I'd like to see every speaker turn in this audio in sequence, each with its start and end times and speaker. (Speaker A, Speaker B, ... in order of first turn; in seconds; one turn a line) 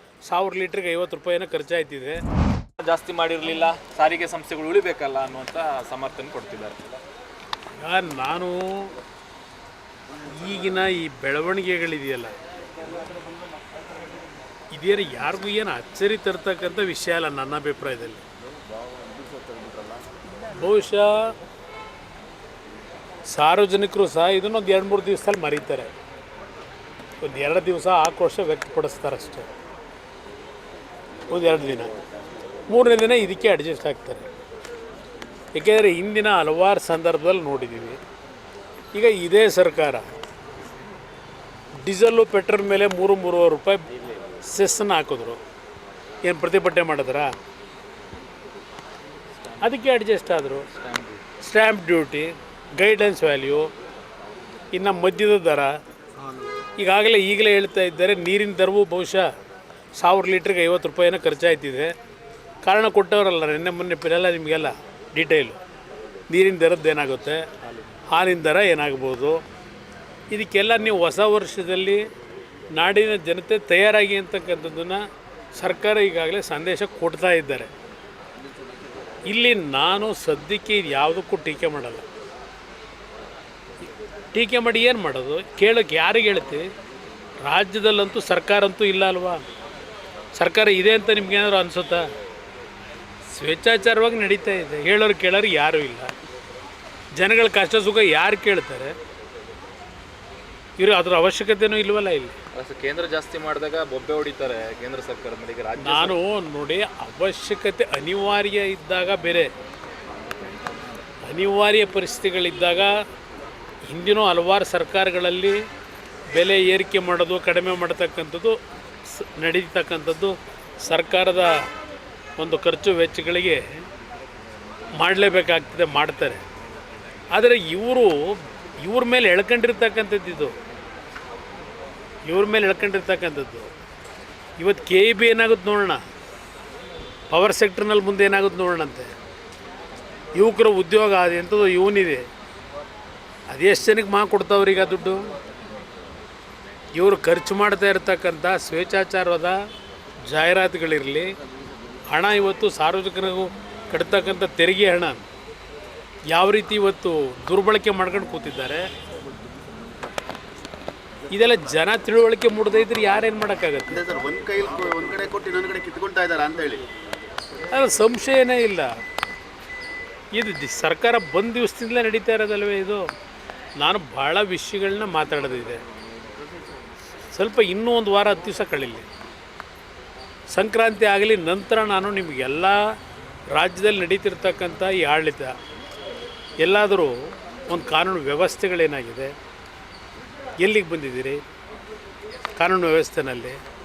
Speaker A: 0.3-2.2
Speaker B: 2.8-7.0
Speaker A: 7.8-8.9
Speaker A: 10.3-12.3
Speaker A: 14.7-18.2
Speaker A: 20.4-21.3
Speaker A: 23.3-25.9
Speaker A: 27.2-29.5
Speaker A: 31.3-31.9
Speaker A: 32.7-34.3
Speaker A: 35.5-38.0
Speaker A: 38.9-40.0
Speaker A: 41.8-43.8
Speaker A: 44.4-45.4
Speaker A: 46.2-47.3
Speaker B: 49.4-49.7
Speaker A: 49.6-50.7
Speaker B: 50.7-51.2
Speaker A: 51.4-53.7
Speaker A: 54.7-55.8
Speaker A: 56.8-59.3
Speaker A: 60.0-62.0
Speaker A: 62.6-65.6
Speaker A: 66.3-67.5
Speaker A: 68.1-69.4
Speaker A: 70.3-72.1
Speaker A: 72.7-75.0
Speaker A: 75.5-77.7
Speaker A: 79.3-82.0
Speaker A: 84.3-86.7
Speaker A: 87.4-89.4
Speaker A: 90.3-92.1
Speaker A: 93.3-96.1
Speaker A: 97.2-99.0
Speaker A: 100.8-102.3
Speaker B: 102.5-106.2
Speaker A: 105.8-109.5
Speaker A: 111.2-113.0
Speaker A: 113.9-115.6
Speaker A: 116.3-121.7
Speaker A: 122.4-123.7
Speaker A: 125.0-126.4
Speaker A: 127.3-130.5
Speaker A: 132.3-133.7
Speaker A: 134.6-136.0
Speaker A: 137.3-139.1
Speaker A: 140.3-142.2
Speaker A: 143.5-145.3
Speaker A: 146.9-149.6
Speaker A: 150.3-151.3
Speaker A: 152.1-155.2
Speaker A: 156.3-158.9
Speaker A: 161.3-164.1
Speaker C: 164.0-166.9
Speaker A: 167.7-168.9
Speaker A: 170.3-173.1
Speaker A: 173.8-175.8
Speaker A: 177.3-179.1
Speaker A: 180.5-182.9
Speaker A: 183.5-185.6
Speaker A: 186.6-189.3
Speaker A: 190.6-191.4
Speaker A: 192.6-193.6